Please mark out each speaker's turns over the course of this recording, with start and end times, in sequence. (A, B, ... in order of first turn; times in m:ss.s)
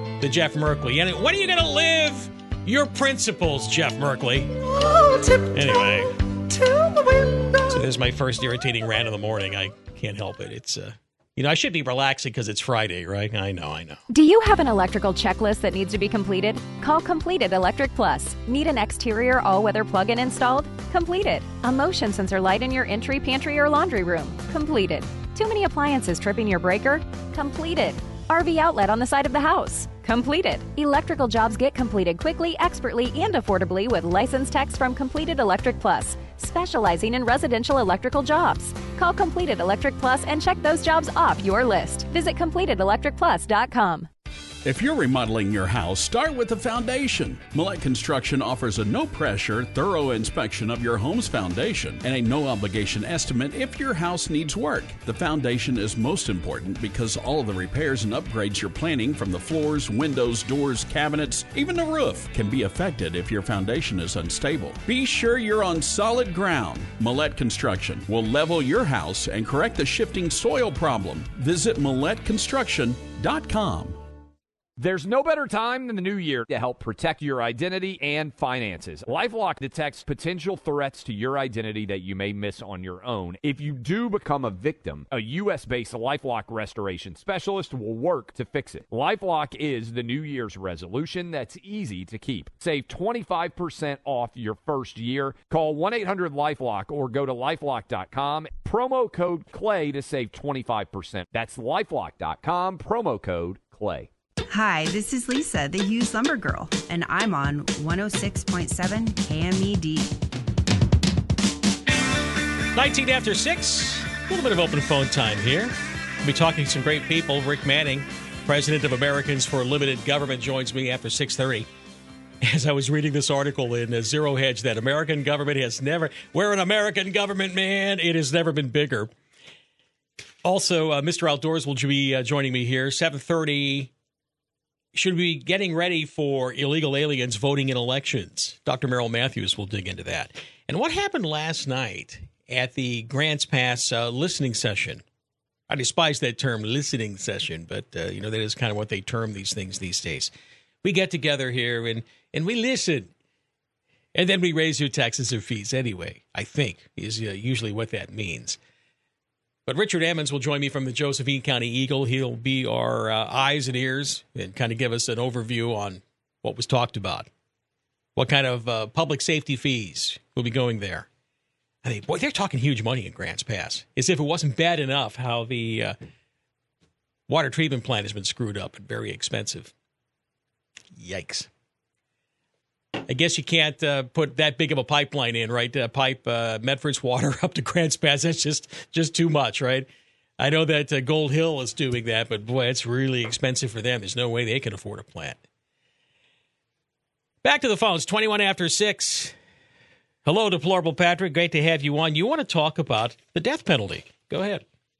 0:00.2-0:04.5 A
0:04.6-0:07.8 B
0:05.5-0:06.1 A
0:07.7-0:14.0 A
0:14.1-0:44.1 C
0:44.6-1:14.0 D
1:14.8-1:44.1 E
1:44.5-1:50.2 F
1:52.8-1:55.7 A
1:56.2-2:01.7 A
2:02.4-2:09.1 A
2:10.4-2:13.9 A
2:14.9-2:25.0 A
2:25.7-2:30.3 A
2:30.8-2:33.1 A
2:34.1-2:38.6 A
2:39.6-2:47.3 A
2:48.2-2:51.1 A
2:51.8-2:55.9 A
2:57.3-2:59.7 A
3:01.0-3:01.5 A
3:03.1-3:09.9 A
3:10.4-3:15.4 A
3:17.4-3:19.3 A
3:20.2-3:24.6 A